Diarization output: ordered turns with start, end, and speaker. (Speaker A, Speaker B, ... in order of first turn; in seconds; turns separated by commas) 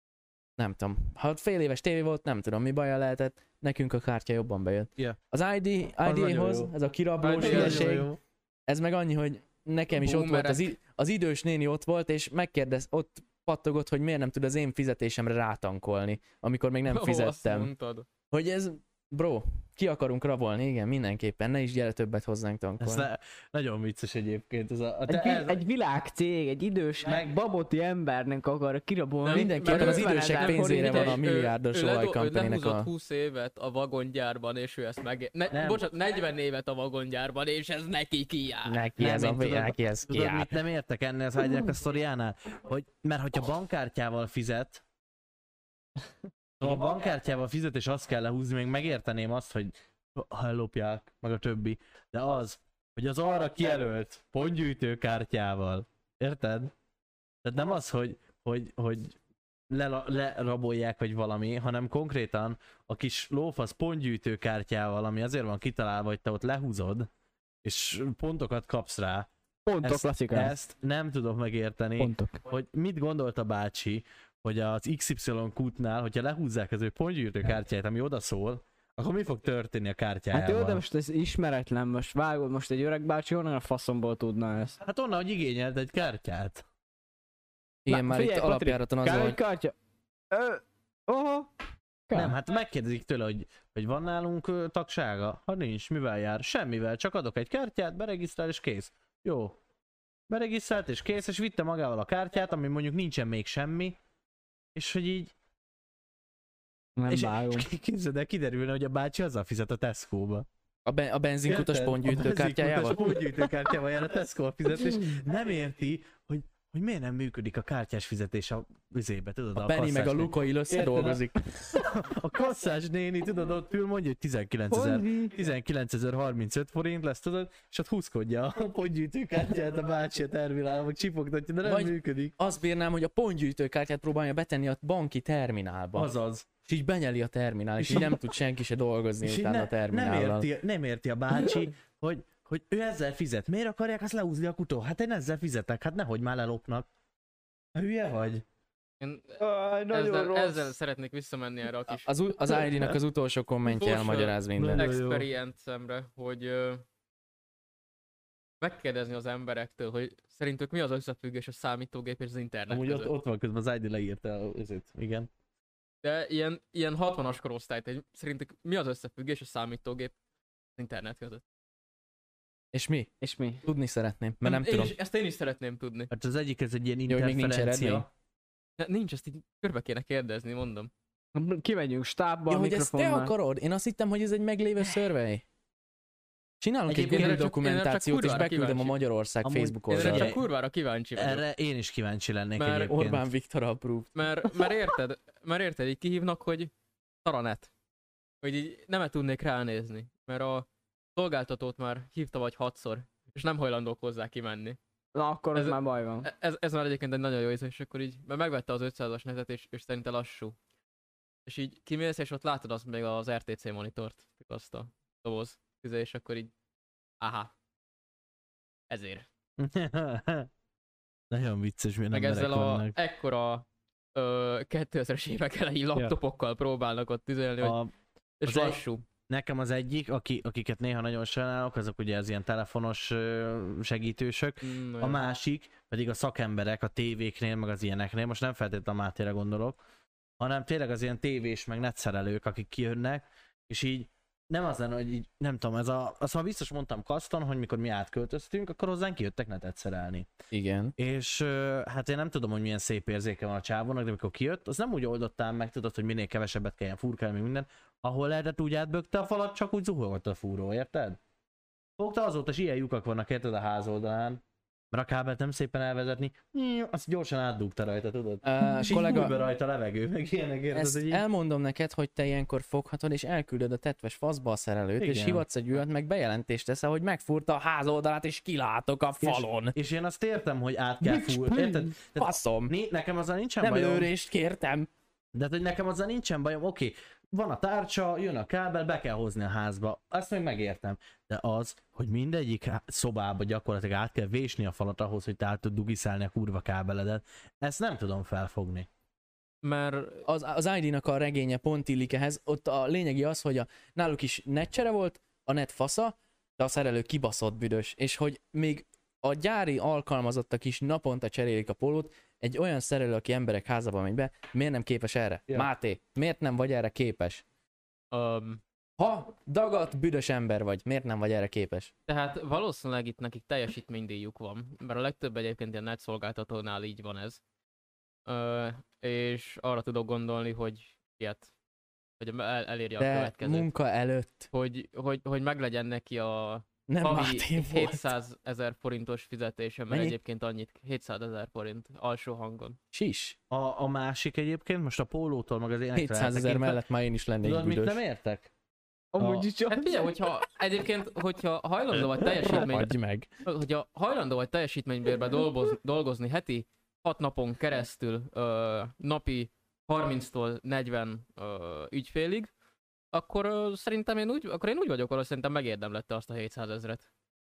Speaker A: 0.6-8.1, Speaker B: 6.0-6.7, Speaker C: 7.2-7.9, Speaker B: 7.3-8.2, Speaker A: 8.7-17.7, Speaker C: 10.0-10.7, Speaker C: 16.9-18.1, Speaker A: 18.3-23.1, Speaker B: 22.8-25.6, Speaker D: 25.1-31.2, Speaker B: 27.0-27.3, Speaker C: 29.2-38.9, Speaker A: 29.3-32.9, Speaker B: 35.5-35.8, Speaker A: 38.6-40.5, Speaker B: 39.0-44.8, Speaker B: 46.6-56.7, Speaker B: 57.4-59.2, Speaker B: 59.7-67.1, Speaker B: 67.6-69.3, Speaker D: 69.7-70.5, Speaker B: 69.8-80.8, Speaker D: 72.0-72.4, Speaker D: 80.3-84.8, Speaker B: 84.8-86.6, Speaker A: 87.8-89.4, Speaker D: 87.9-89.7, Speaker D: 90.3-91.5, Speaker D: 92.1-92.3, Speaker B: 92.1-99.5, Speaker B: 100.3-104.0, Speaker B: 104.7-105.3, Speaker D: 107.0-107.7, Speaker B: 107.1-110.5, Speaker A: 110.8-113.1, Speaker B: 111.5-121.2, Speaker A: 119.5-121.8, Speaker B: 121.7-132.3, Speaker D: 124.7-125.3, Speaker A: 131.6-136.1, Speaker B: 135.9-136.5, Speaker A: 136.7-140.5, Speaker B: 137.8-138.2, Speaker B: 139.2-146.8, Speaker B: 147.7-148.4, Speaker C: 149.0-152.1, Speaker D: 149.4-150.7, Speaker A: 151.9-154.9, Speaker C: 153.7-156.8, Speaker B: 154.6-155.3, Speaker C: 158.6-163.1, Speaker B: 162.7-165.3, Speaker C: 166.0-170.1, Speaker C: 170.8-171.4, Speaker A: 172.7-173.1, Speaker D: 173.2-173.6, Speaker A: 173.6-174.9, Speaker C: 174.4-176.1, Speaker B: 176.1-178.1, Speaker A: 177.1-178.1, Speaker C: 178.8-180.9, Speaker D: 181.3-183.3, Speaker A: 182.5-185.4, Speaker A: 186.6-190.4, Speaker B: 186.9-187.5, Speaker C: 187.1-188.9, Speaker B: 189.4-190.4, Speaker C: 189.9-191.4, Speaker B: 191.2-193.3, Speaker C: 192.6-192.9, Speaker A: 192.8-194.1, Speaker C: 194.1-196.7, Speaker C: 197.2-197.7, Speaker C: 198.4-204.8, Speaker D: 205.1-206.3, Speaker C: 205.5-210.6, Speaker C: 211.4-216.5, Speaker C: 217.2-217.5, Speaker C: 218.9-219.2, Speaker B: 219.6-220.5, Speaker B: 221.3-222.9, Speaker C: 222.1-227.8, Speaker B: 227.6-227.9, Speaker C: 228.4-229.0, Speaker B: 228.4-239.8, Speaker C: 234.6-235.2, Speaker B: 240.4-250.3, Speaker A: 250.5-250.9, Speaker B: 251.0-261.2, Speaker B: 262.0-264.4, Speaker B: 264.9-271.2, Speaker A: 268.4-269.4, Speaker A: 270.7-279.8, Speaker B: 275.0-275.4, Speaker B: 279.2-284.1, Speaker A: 281.0-282.7, Speaker A: 283.6-284.9, Speaker B: 285.3-298.9, Speaker C: 299.6-300.2, Speaker A: 300.2-317.4, Speaker C: 318.1-318.6, Speaker A: 319.0-321.9, Speaker C: 322.1-327.4, Speaker C: 328.2-331.5, Speaker C: 332.2-333.7, Speaker A: 333.0-334.5, Speaker C: 334.5-342.8, Speaker A: 336.9-338.0, Speaker A: 339.9-340.1, Speaker A: 342.9-343.4, Speaker B: 343.5-346.8, Speaker A: 345.9-348.0, Speaker B: 347.4-348.5, Speaker D: 349.1-350.1, Speaker B: 349.2-349.5, Speaker C: 349.7-352.9, Speaker A: 351.9-353.3, Speaker C: 353.4-362.5, Speaker C: 363.1-367.1